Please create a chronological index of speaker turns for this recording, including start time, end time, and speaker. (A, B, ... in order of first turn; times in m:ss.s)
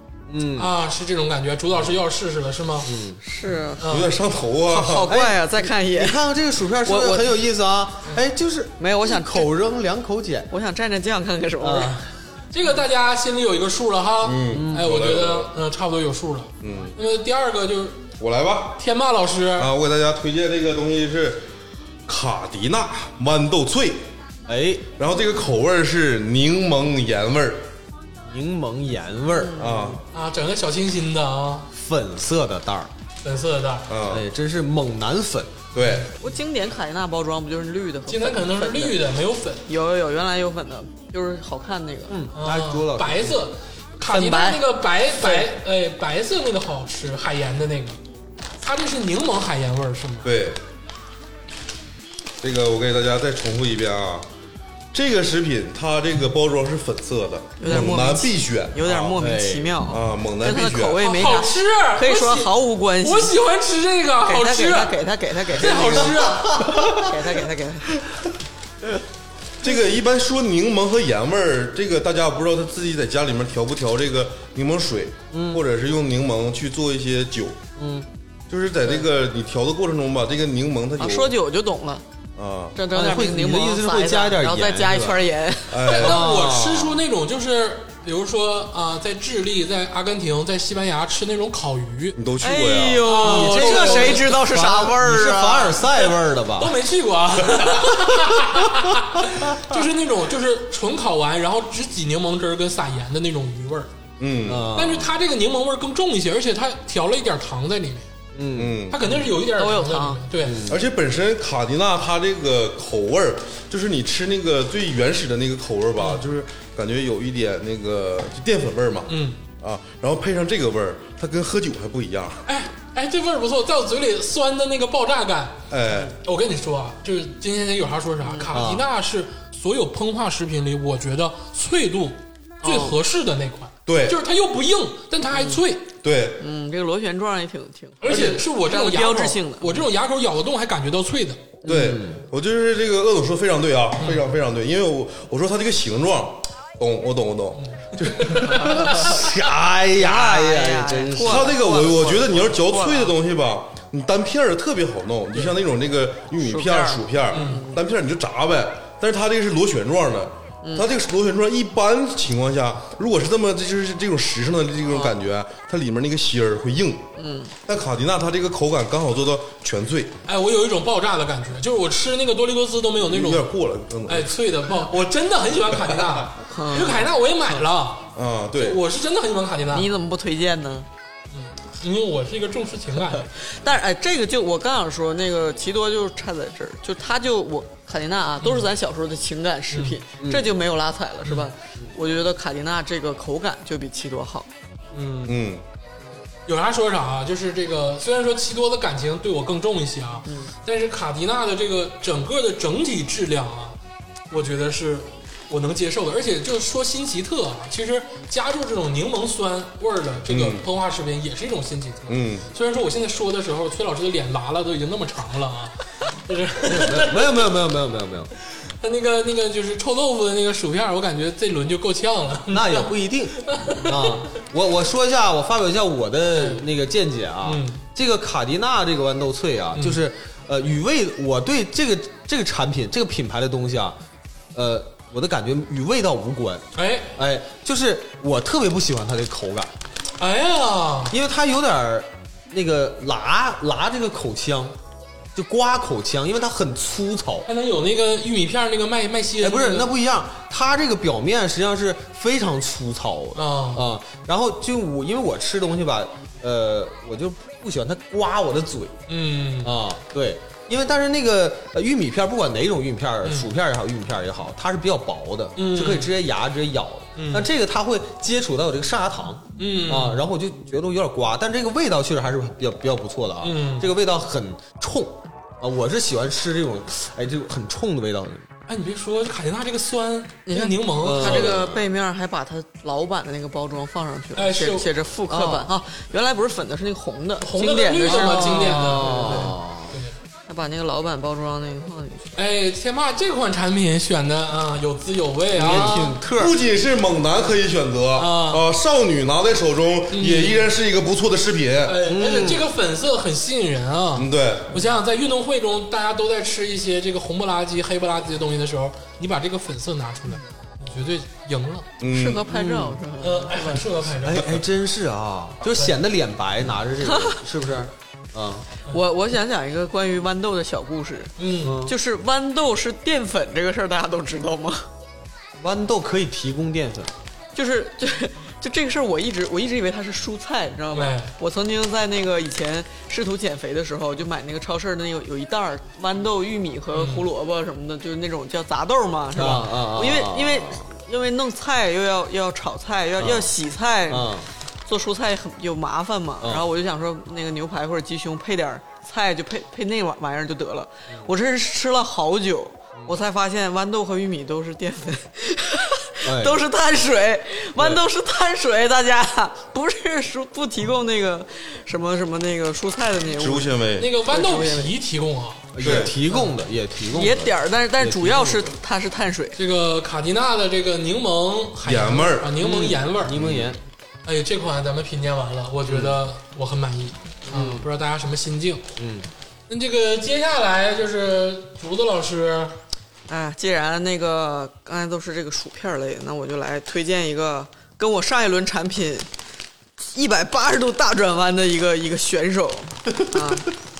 0:00.3-0:00.7 A
0:00.6-0:02.9 B
0:02.8-0:03.2 A
0:03.2-0:03.9 C
0:03.8-0:04.2 B
0:03.8-0:05.2 D
0:04.7-0:06.2 C
0:05.0-0:10.5 A
0:06.8-0:07.3 C
0:08.8-0:09.5 C
0:10.5-0:12.0 C
0:11.6-0:12.1 A
0:12.5-0:18.0 B
0:14.2-0:15.5 D
0:14.5-0:15.0 A
0:16.6-0:17.0 D
0:18.2-0:18.8 D
0:18.8-0:19.7 B
0:19.6-0:21.5 D
0:22.1-0:24.0 D
0:24.5-0:24.9 A
0:25.0-0:27.6 D
0:28.2-0:29.6 A
0:29.3-0:30.0 C
0:29.6-0:30.0 D
0:30.1-0:31.7 B
0:31.7-0:32.9 A
0:33.2-0:33.9 B
0:33.9-0:34.2 D
0:34.1-0:35.7 A
0:35.7-0:36.1 D
0:35.8-0:36.1 B
0:36.2-0:39.0 C
0:38.1-0:39.6 B
0:39.7-0:42.2 C
0:42.1-0:43.5 A
0:42.3-0:48.0 B
0:44.1-0:45.5 C
0:48.6-0:50.3 B
0:50.2-0:50.6 D
0:52.4-0:54.3 D
0:54.9-0:59.2 D
0:57.6-1:03.3 C
0:59.2-0:59.8 A
0:59.9-1:01.0 D
1:01.0-1:06.8 B
1:04.2-1:08.0 C
1:05.7-1:07.1 A
1:09.6-1:17.6 D
1:15.3-1:15.6 A
1:17.8-1:18.1 A
1:18.5-1:21.3 D
1:21.0-1:22.0 C
1:22.4-1:22.8 D
1:22.7-1:26.0 C
1:22.9-1:25.2 A
1:25.7-1:26.3 D
1:25.9-1:32.2 B
1:26.0-1:27.0 A
1:32.2-1:33.1 D
1:32.4-1:36.0 C
1:33.0-1:34.4 B
1:33.2-1:36.8 A
1:36.6-1:43.9 B
1:44.2-1:44.7 D
1:44.4-1:45.1 A
1:44.7-1:48.1 B
1:48.3-1:49.2 A
1:48.6-1:49.0 D
1:48.9-1:50.7 B
1:49.5-1:50.2 C
1:50.4-1:50.9 A
1:50.7-2:02.4 D
1:56.0-1:56.3 B
1:59.1-1:59.4 B
2:02.4-2:05.6 B
2:05.7-2:06.2 D
2:06.2-2:15.9 B
2:08.2-2:08.5 C
2:08.5-2:08.9 A
2:12.6-2:13.0 C
2:13.8-2:14.2 D
2:15.3-2:15.6 C
2:16.0-2:16.4 D
2:16.4-2:19.8 C
2:18.0-2:21.4 B
2:21.6-2:22.2 A
2:21.6-2:28.8 D
2:24.0-2:24.3 B
2:27.6-2:29.2 B
2:28.6-2:29.1 C
2:28.8-2:31.6 A
2:29.9-2:33.1 C
2:31.2-2:47.0 D
2:36.4-2:37.8 C
2:37.3-2:37.6 B
2:44.9-2:45.2 B
2:47.2-2:47.5 C
2:47.6-2:50.1 D
2:50.2-2:53.5 B
2:53.0-2:54.3 D
2:54.1-2:59.9 B
2:56.5-2:57.0 C
2:58.2-2:58.8 D
2:59.7-3:00.9 C
3:01.3-3:03.3 B
3:03.4-3:14.5 C
3:08.4-3:08.7 B
3:09.7-3:10.0 B
3:10.2-3:10.6 A
3:11.2-3:11.5 B
3:14.9-3:15.4 B
3:15.2-3:15.6 D
3:16.5-3:23.8 B
3:20.2-3:20.5 C
3:24.3-3:37.6 B
3:30.3-3:30.6 D
3:32.1-3:32.5 D
3:36.6-3:38.3 A
3:38.5-3:44.2 B
3:42.5-3:54.0 A
3:46.3-3:46.7 B
3:47.4-3:47.8 B
3:49.7-3:50.0 B
3:54.5-3:59.7 A
3:56.7-3:57.2 B
4:00.2-4:01.1 B
4:01.1-4:04.8 A
4:05.3-4:07.5 A
4:07.5-4:09.9 B
4:09.4-4:19.0 A
4:13.3-4:13.9 B
4:19.1-4:19.7 B
4:19.6-4:38.5 A
4:23.2-4:23.5 B
4:25.6-4:26.1 B
4:27.2-4:27.5 B
4:29.6-4:30.2 B
4:33.4-4:33.9 B
4:38.7-4:41.6 B
4:40.4-4:49.5 C
4:41.0-4:41.9 A
4:44.3-4:44.9 B
4:45.3-4:45.7 A
4:47.4-4:50.2 B
4:48.0-4:50.0 A
4:50.5-4:52.3 C
4:52.3-4:56.1 B
4:55.5-4:56.6 A
4:55.6-5:02.0 D
4:58.1-4:58.6 B
5:00.1-5:00.7 B
5:01.8-5:11.9 B
5:02.0-5:02.7 A
5:04.1-5:04.8 D
5:12.0-5:12.5 D
5:12.1-5:13.8 C
5:12.5-5:13.0 A
5:13.2-5:14.6 B
5:14.2-5:18.7 A
5:17.1-5:17.4 C
5:18.9-5:24.9 C
5:21.4-5:21.8 B
5:21.6-5:22.0 A
5:25.6-5:27.1 A
5:27.5-6:04.9 C
5:30.9-5:31.3 B
5:36.9-5:37.3 B
5:39.3-5:40.9 A
5:43.2-5:43.5 A
5:44.1-5:44.5 A
5:46.4-5:46.7 A
5:56.2-5:56.6 A
6:03.4-6:04.1 D
6:04.0-6:05.8 B
6:05.7-6:08.7 A
6:05.8-6:06.1 D
6:07.1-6:09.6 C
6:09.6-6:13.4 B
6:11.8-6:12.5 D
6:12.6-6:13.8 A
6:13.3-6:13.7 D
6:14.2-6:18.9 B
6:15.8-6:16.2 A
6:17.5-6:17.8 A
6:19.0-6:19.3 A
6:19.7-6:22.8 B
6:23.3-6:29.3 C
6:30.0-6:33.7 C